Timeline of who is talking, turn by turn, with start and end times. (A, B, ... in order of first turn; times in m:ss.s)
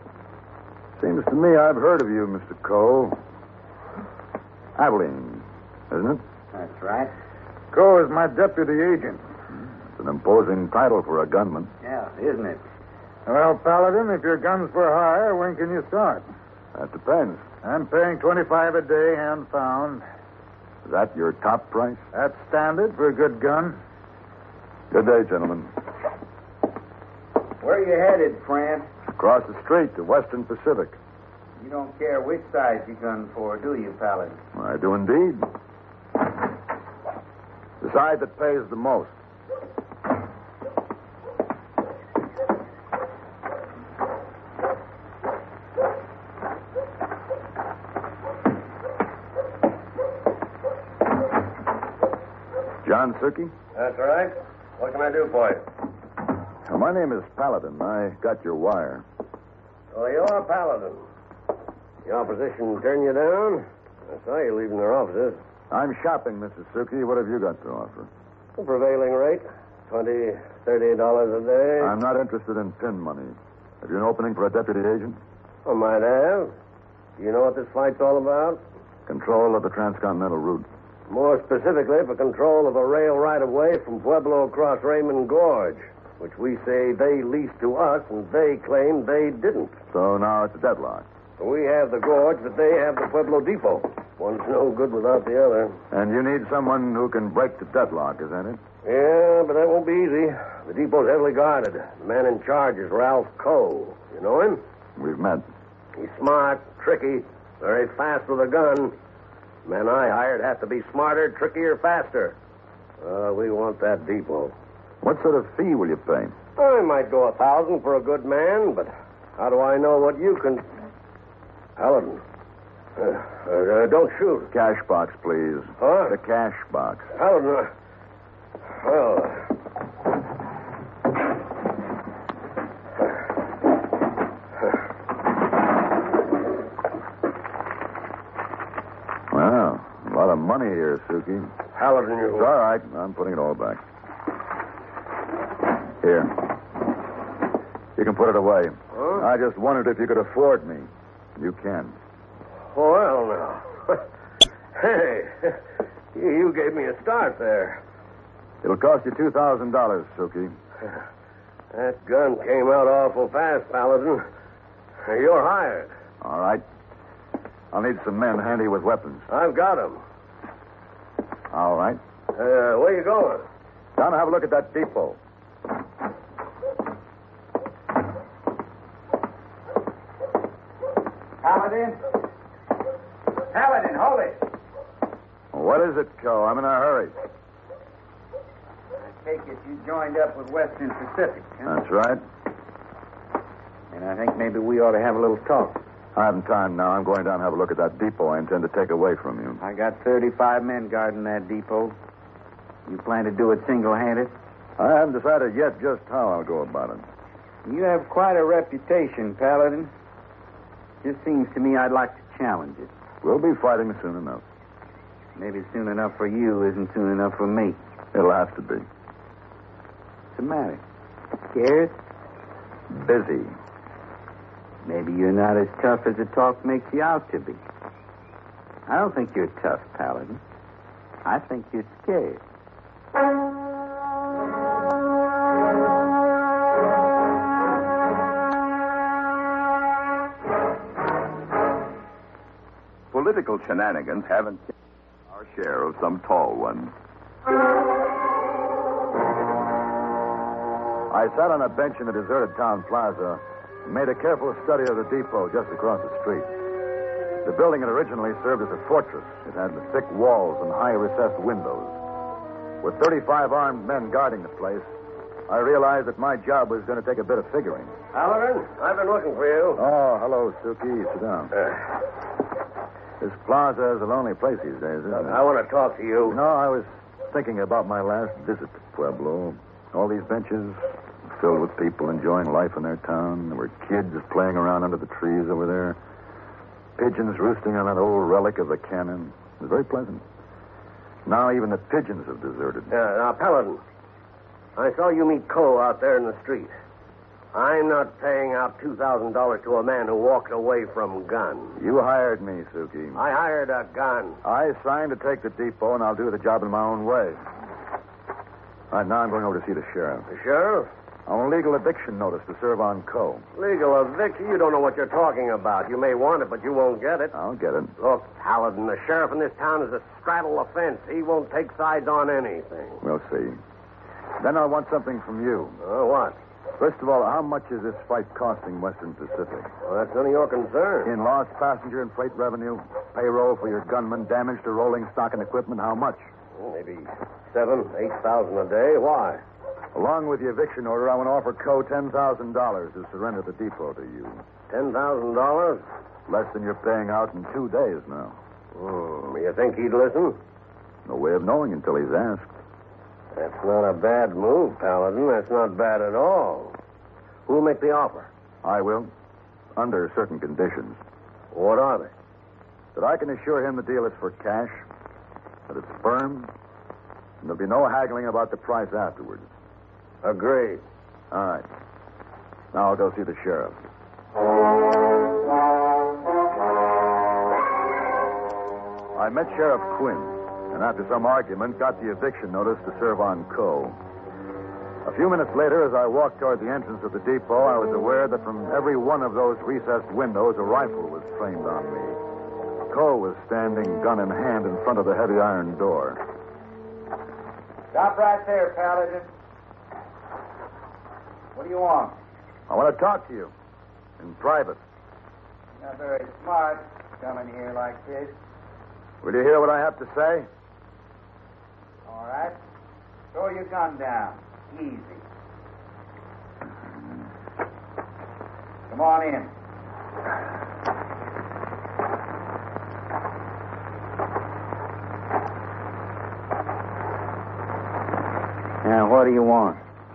0:01.0-0:03.2 A
0:04.8-0:06.2 A
0:06.5-0:07.1 B
0:07.7-0:09.2 C
0:10.0-0:11.7 A
0:11.8-0:12.6 B
0:13.3-0:16.2 C
0:16.8-0:17.5 A
0:17.6-0:20.0 C
0:20.8-0:22.0 A
0:22.1-0:23.8 C
0:24.9-0:25.7 A
0:27.6-0:28.9 B
0:29.1-0:31.0 A
0:31.6-0:34.4 B
0:34.6-0:35.5 A
0:37.8-0:39.1 A
0:52.8-0:53.5 A
0:53.8-0:55.7 D
0:56.6-0:59.0 A
0:59.9-1:01.0 D
1:02.0-1:05.4 D
1:05.7-1:08.1 A
1:08.6-1:12.0 D
1:11.8-1:15.2 A
1:15.7-1:16.5 D
1:17.2-1:18.6 D
1:19.1-1:20.7 A
1:21.1-1:29.8 D
1:29.9-1:31.0 A
1:31.4-1:35.8 D
1:35.9-1:38.6 A
1:38.8-1:44.6 D
1:45.0-1:45.4 A
1:46.0-1:49.0 D
1:49.6-1:52.4 D
1:53.0-1:54.5 D
1:55.0-1:56.4 A
1:56.6-2:00.7 D
2:01.8-2:02.2 D
2:03.0-2:04.5 D
2:04.5-2:07.1 A
2:05.8-2:06.1 D
2:07.2-2:07.7 D
2:08.8-2:09.5 D
2:19.3-2:21.6 A
2:21.8-2:22.5 D
2:22.4-2:23.8 A
2:26.0-2:26.4 A
2:28.0-2:32.0 A
2:32.7-2:34.0 D
2:34.8-2:35.6 D
2:36.1-2:37.8 D
2:38.6-2:40.5 A
2:41.7-2:44.2 D
2:45.0-2:45.9 D
2:46.2-2:46.6 A
2:47.7-2:49.3 A
2:49.3-2:50.0 D
2:51.5-2:52.0 A
2:52.4-2:53.4 D
2:54.0-2:55.2 A
3:01.4-3:02.0 B
3:03.5-3:04.4 B
3:05.5-3:07.2 A
3:09.0-3:11.7 B
3:11.6-3:12.2 A
3:13.9-3:15.8 B
3:16.2-3:19.6 A
3:19.6-3:22.0 B
3:22.9-3:24.3 B
3:24.8-3:27.1 A
3:27.6-3:29.9 B
3:31.0-3:32.9 B
3:33.2-3:34.4 A
3:35.4-3:37.8 B
3:38.1-3:38.9 A
3:40.3-3:40.8 B
3:41.5-3:42.0 B
3:42.9-3:43.6 A
3:44.8-3:47.6 B
3:48.9-3:50.4 B
3:51.2-3:52.4 B
4:03.1-4:04.6 E
4:05.3-4:06.9 E
4:11.1-4:16.5 A
4:17.4-4:22.0 A
4:22.8-4:24.9 A
4:25.5-4:27.9 A
4:28.1-4:29.8 D
4:29.8-4:31.6 A
4:33.2-4:35.4 A
4:35.1-4:36.4 D
4:36.3-4:40.8 A
4:41.3-4:46.0 A
4:47.0-4:50.2 A
4:51.3-4:52.9 A
4:52.9-4:53.8 D
4:54.8-4:56.7 D
4:57.5-5:01.8 D
5:01.8-5:03.2 A
5:03.2-5:04.4 D
5:04.4-5:07.4 A
5:08.9-5:10.3 A
5:10.3-5:10.9 D
5:11.3-5:13.4 A
5:13.6-5:17.3 D
5:17.3-5:18.0 A
5:18.0-5:23.0 D
5:23.0-5:23.6 A
5:24.4-5:25.8 A
5:25.8-5:26.4 D
5:26.8-5:29.7 A
5:29.9-5:31.1 D
5:31.0-5:36.3 A
5:36.6-5:39.4 D
5:40.0-5:44.4 A
5:44.7-5:45.8 D
5:46.3-5:48.4 A
5:48.8-5:50.4 D
5:51.1-5:52.5 A
5:53.4-5:56.8 D
5:57.5-5:58.3 D
5:58.6-5:59.1 A
5:59.8-6:01.0 A
6:01.5-6:02.1 D
6:03.0-6:04.8 A
6:05.7-6:06.5 A
6:07.4-6:09.5 A
6:10.2-6:10.8 D
6:11.3-6:11.7 A
6:12.7-6:13.8 A
6:19.1-6:24.0 A
6:25.0-6:32.2 A
6:32.9-6:36.2 A
6:37.9-6:39.3 B
6:41.6-6:42.2 B
6:42.7-6:43.5 A
6:44.2-6:44.8 A
6:45.8-6:48.3 B
6:49.2-6:50.5 A
6:52.1-6:52.6 B
6:53.3-6:55.2 B
6:58.9-6:59.5 B
7:08.8-7:09.8 B